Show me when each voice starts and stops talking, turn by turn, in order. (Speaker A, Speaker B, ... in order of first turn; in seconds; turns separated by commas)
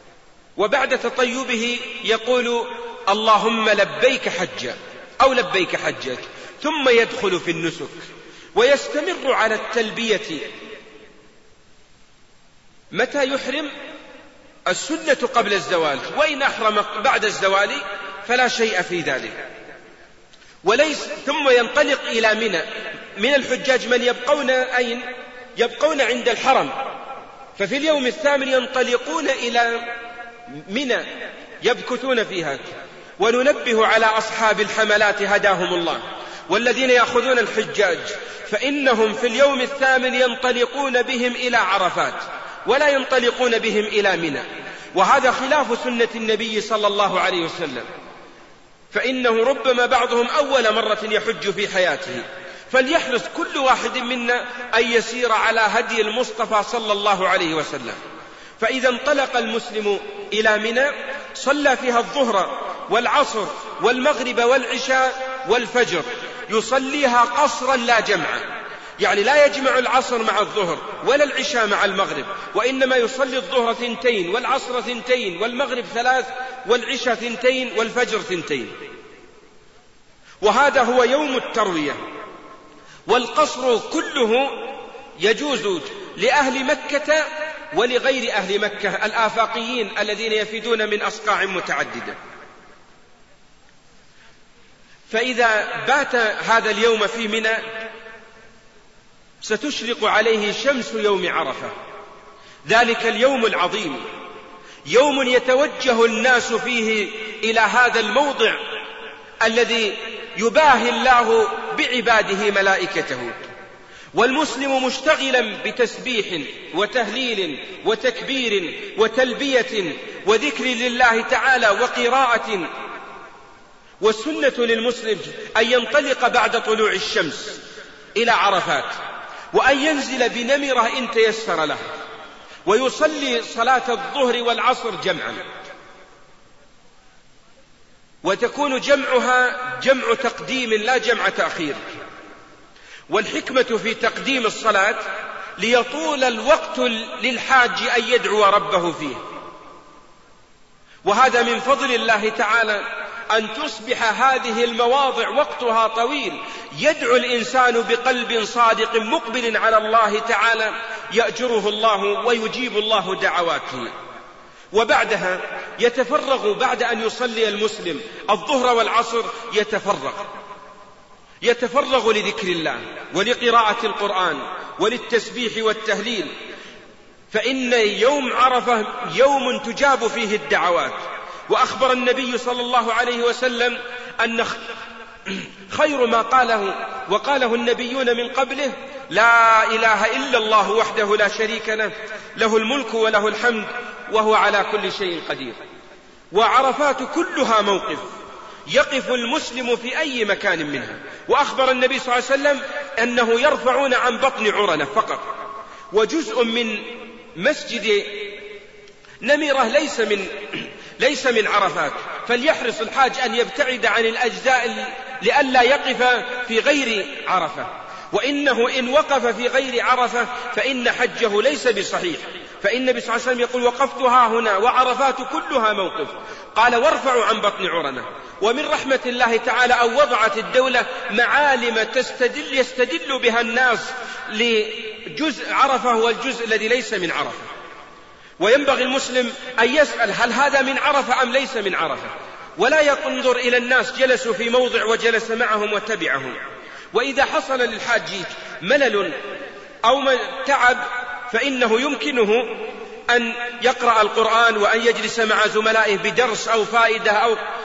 Speaker A: 0.6-10.4, Speaker A: 12.9-13.7, Speaker A: 14.7-19.4, Speaker A: 20.6-25.1, Speaker A: 25.6-26.8, Speaker A: 27.6-29.9, Speaker A: 30.6-31.1, Speaker A: 31.6-32.7, Speaker A: 33.2-47.9, Speaker A: 48.9-58.0, Speaker A: 58.6-68.5, Speaker A: 69.0-78.7, Speaker A: 80.4-82.0, Speaker A: 83.1-92.2, Speaker A: 95.1-97.6, Speaker A: 99.4-101.7, Speaker A: 102.7-104.0, Speaker A: 104.9-108.6, Speaker A: 109.4-113.4, Speaker A: 114.1-122.7, Speaker A: 124.0-127.6, Speaker A: 128.2-128.9, Speaker A: 129.5-131.8, Speaker A: 132.7-135.4, Speaker A: 138.2-141.8, Speaker A: 143.1-145.0, Speaker A: 145.6-149.2, Speaker A: 151.1-163.9, Speaker A: 164.7-170.3, Speaker A: 171.4-176.3, Speaker A: 177.3-181.0, Speaker A: 181.5-184.6, Speaker A: 185.3-195.6, Speaker A: 196.3-198.1, Speaker A: 198.7-205.2, Speaker A: 205.9-208.4, Speaker A: 209.2-237.5, Speaker A: 238.4-246.4, Speaker A: 246.9-249.2, Speaker A: 249.8-257.4